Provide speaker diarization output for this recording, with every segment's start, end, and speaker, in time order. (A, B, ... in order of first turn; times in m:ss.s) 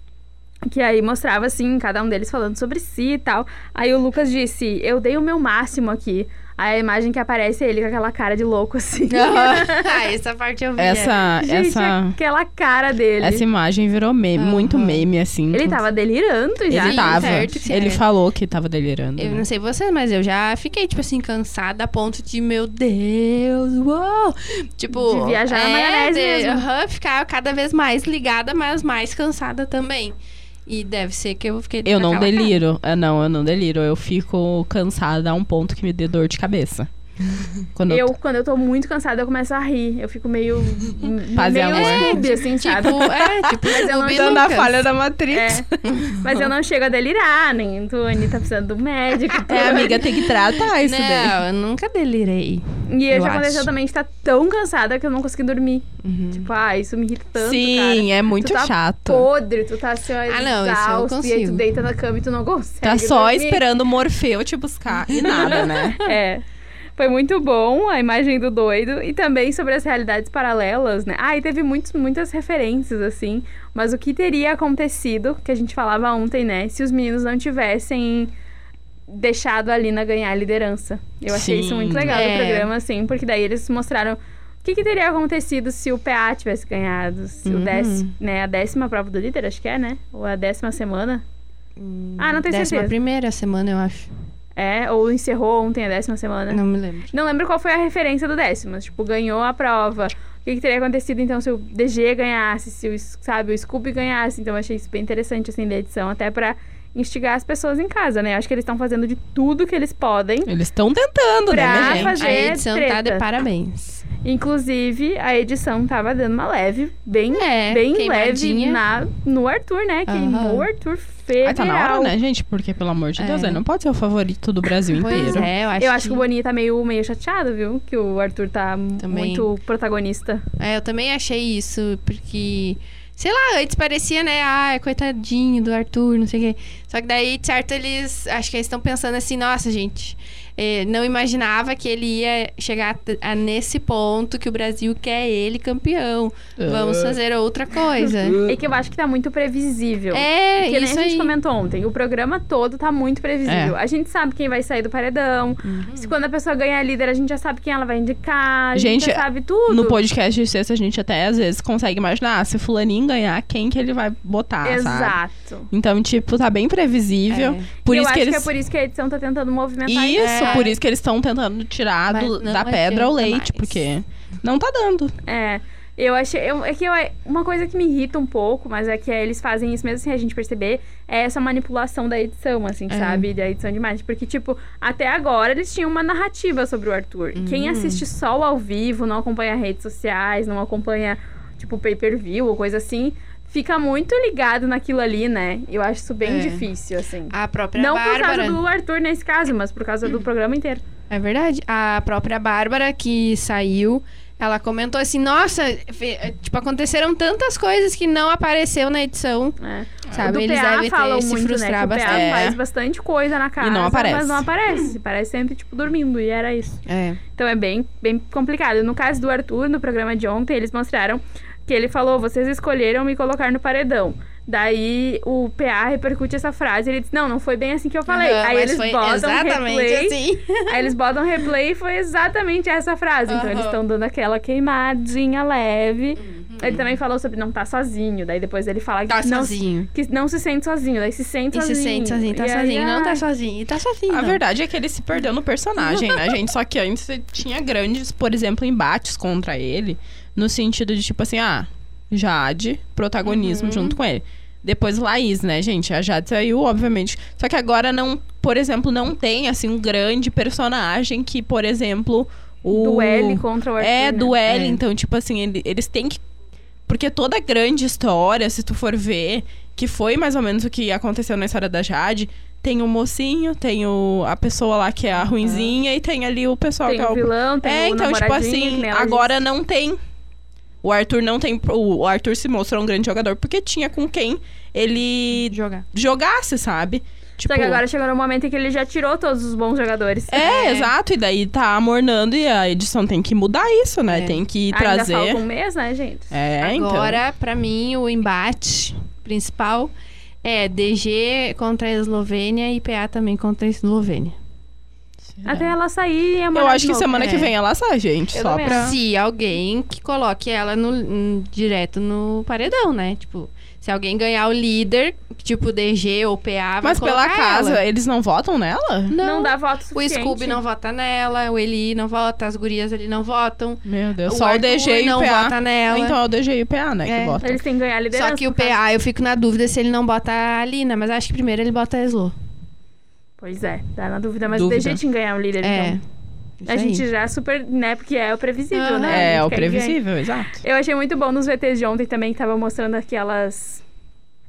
0:00.7-0:10.0 A
0:09.1-0:11.2 B
0:10.8-0:12.2 C
0:11.4-0:13.4 A
0:13.2-0:15.8 C
0:14.4-0:15.0 B
0:15.5-0:17.6 A
0:16.7-0:19.4 C
0:16.7-0:18.0 B
0:19.2-0:32.6 B
0:24.9-0:26.6 A
0:31.8-0:36.9 C
0:37.7-0:38.1 C
0:37.9-0:43.1 A
0:41.4-0:42.2 C
0:41.7-0:44.8 B
0:42.8-0:46.5 C
0:43.6-0:44.6 A
0:45.3-0:45.6 A
0:45.8-0:46.2 B
0:46.2-0:50.0 A
0:49.5-0:51.4 C
0:49.6-0:52.6 B
0:52.9-1:03.6 A
0:53.1-0:53.7 C
0:56.0-0:56.5 B
0:57.4-0:59.3 C
1:00.3-1:01.6 B
1:02.8-1:06.0 C
1:05.1-1:06.1 B
1:05.2-1:06.4 A
1:07.0-1:18.3 A
1:19.1-1:31.2 A
1:21.3-1:22.2 C
1:22.1-1:22.7 B
1:27.4-1:28.1 B
1:31.8-1:34.1 B
1:32.2-1:32.9 A
1:34.6-1:50.5 A
1:36.5-1:37.1 B
1:50.4-1:52.5 C
1:51.5-1:53.2 A
1:51.5-1:54.0 B
1:54.2-2:02.1 A
1:57.3-1:58.8 B
2:00.1-2:00.6 B
2:01.4-2:05.5 C
2:03.2-2:03.6 B
2:05.0-2:06.2 B
2:05.1-2:10.4 A
2:09.0-2:09.5 B
2:10.6-2:28.4 B
2:26.6-2:27.2 C
2:28.2-2:28.6 C
2:28.4-2:40.0 A
2:30.1-2:31.3 B
2:33.4-2:33.8 C
2:35.6-2:36.1 B
2:38.7-2:45.2 C
2:44.6-2:45.7 A
2:45.7-2:48.5 C
2:47.3-2:47.7 B
2:47.8-2:50.7 A
2:49.8-2:55.1 C
2:50.2-2:50.7 B
2:52.1-2:53.8 B
2:55.2-3:20.8 A
3:02.9-3:03.3 B
3:07.3-3:08.0 B
3:16.2-3:16.7 B
3:17.3-3:18.6 B
3:21.1-3:29.6 B
3:29.6-3:36.8 A
3:30.1-3:32.3 B
3:32.0-3:32.6 C
3:33.6-3:34.4 C
3:36.8-3:37.2 B
3:37.3-4:03.2 A
3:48.1-3:50.9 B
3:53.3-3:53.8 B
3:56.2-3:56.9 B
3:59.1-3:59.9 B
4:01.5-4:04.4 B
4:04.1-4:26.2 C
4:05.8-4:06.3 B
4:13.2-4:14.0 B
4:22.7-4:24.4 A
4:24.5-4:24.8 B
4:26.9-4:40.0 C
4:35.1-4:35.8 B
4:36.8-4:39.3 A
4:40.8-4:47.8 C
4:45.3-4:45.8 B
4:47.4-4:50.5 A
4:50.3-4:55.4 C
4:50.4-4:50.9 B
4:54.1-4:54.4 B
4:54.7-4:56.3 A
4:56.3-4:57.2 C
4:56.6-4:59.9 B
5:00.4-5:04.3 B
5:05.4-5:05.7 C
5:05.4-5:07.4 A
5:06.5-5:09.0 C
5:07.2-5:07.5 B
5:08.3-5:08.8 A
5:08.6-5:17.8 B
5:16.8-5:19.2 C
5:19.1-5:26.2 B
5:19.2-5:20.6 A
5:23.8-5:27.6 C
5:27.0-5:27.4 B
5:27.4-5:28.8 A
5:28.1-5:32.3 B
5:33.4-5:36.0 A
5:34.5-5:35.0 C
5:35.6-5:36.0 B
5:36.6-5:37.0 B
5:36.7-5:40.0 A
5:38.7-5:39.3 B
5:39.0-5:40.6 C
5:40.6-5:43.8 A